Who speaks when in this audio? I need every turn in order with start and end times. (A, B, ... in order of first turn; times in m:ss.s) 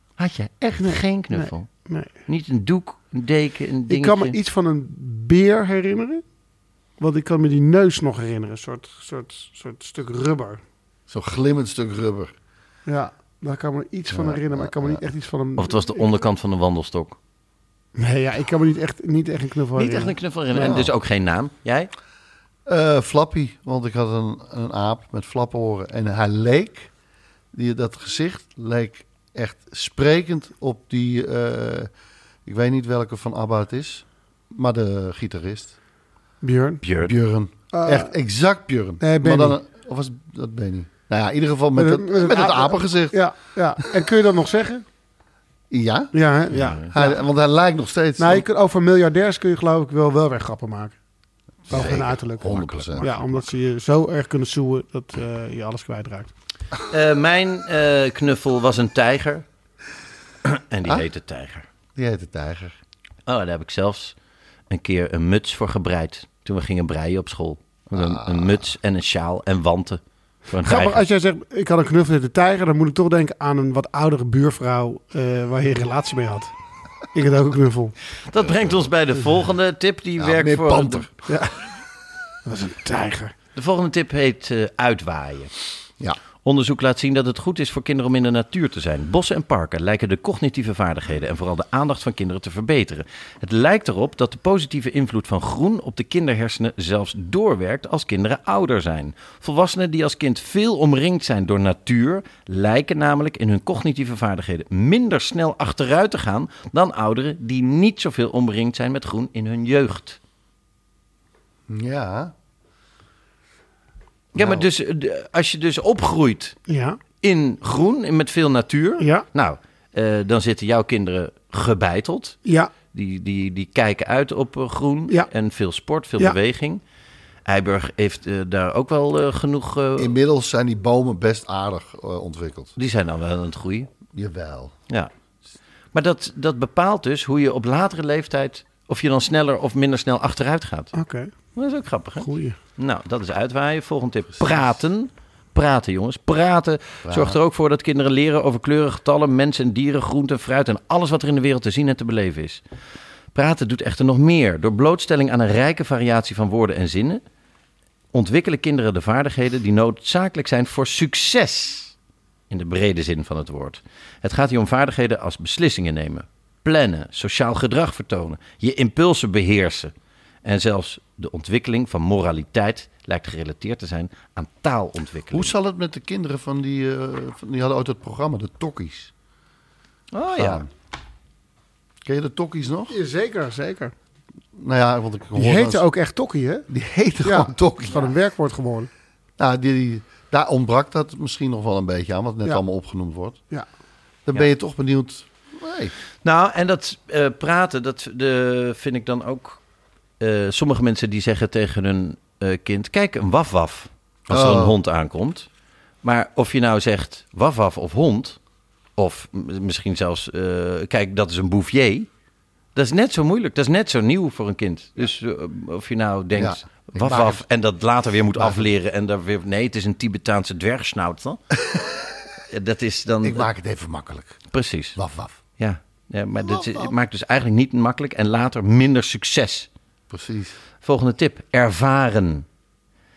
0:00.2-0:01.7 A
0:00.8-0:02.1 B
0:02.2-0:04.4 A
0:03.9-0:06.2 B
0:07.0-0:10.6 B
0:11.1-0:12.3 C
0:12.9-0:16.0 B
0:14.1-0:15.0 C
0:15.6-0:17.2 A
0:18.0-0:20.8 B
0:19.8-0:21.9 A
0:20.5-0:20.9 C
0:22.7-0:26.9 C
0:27.5-0:31.9 C
0:32.4-0:35.7 C
0:36.4-0:36.8 B
0:36.8-0:37.1 A
0:37.0-0:43.2 C
0:37.7-0:38.1 B
0:39.0-0:39.6 B
0:41.8-0:44.8 B
0:45.7-0:46.1 C
0:46.1-0:47.2 B
0:46.5-0:46.9 A
0:46.8-0:48.4 C
0:48.2-0:50.9 B
0:51.7-0:53.1 C
0:51.7-0:56.3 B
0:51.7-0:53.2 A
0:56.9-0:59.4 A
1:00.4-1:01.6 A
1:02.0-1:02.7 C
1:03.2-1:04.1 A
1:04.7-1:11.0 A
1:07.9-1:08.6 C
1:10.6-1:16.5 B
1:17.1-1:17.9 B
1:18.3-1:21.1 A
1:18.4-1:18.8 C
1:20.2-1:21.1 C
1:21.3-1:21.6 B
1:22.4-1:23.3 B
1:23.6-1:25.5 A
1:26.4-1:50.2 A
1:51.7-1:52.3 C
1:54.3-1:54.6 C
1:54.3-1:56.6 A
1:56.7-1:57.0 B
1:57.2-2:02.4 A
1:59.0-1:59.2 B
2:02.4-2:02.7 B
2:02.9-2:06.8 A
2:07.4-2:10.1 A
2:10.0-2:12.7 C
2:12.8-2:13.9 A
2:14.1-2:14.7 C
2:15.9-2:20.9 A
2:20.9-2:21.3 B
2:21.5-2:32.6 A
2:22.2-2:22.6 B
2:27.0-2:27.4 C
2:33.3-2:37.2 A
2:38.1-2:41.9 A
2:42.5-2:49.9 A
2:50.4-2:55.5 A
2:55.3-2:59.1 C
3:00.1-3:00.6 A
3:00.3-3:00.7 C
3:02.0-3:02.9 C
3:02.9-3:03.9 B
3:04.6-3:05.8 C
3:05.3-3:06.7 B
3:06.7-3:08.1 C
3:07.2-3:08.9 B
3:09.4-3:13.4 C
3:14.3-3:15.9 C
3:16.2-3:19.6 A
3:20.2-3:25.5 A
3:24.3-3:24.8 C
3:26.0-3:28.4 A
3:29.0-3:32.1 A
3:32.7-3:41.4 A
3:36.3-3:37.4 C
3:38.3-3:38.7 C
3:42.5-3:43.5 A
3:43.2-3:44.4 C
3:44.5-3:45.0 A
3:45.0-3:45.4 C
3:45.6-3:49.7 A
3:46.4-3:46.9 C
3:50.1-3:50.6 C
3:50.8-3:52.4 A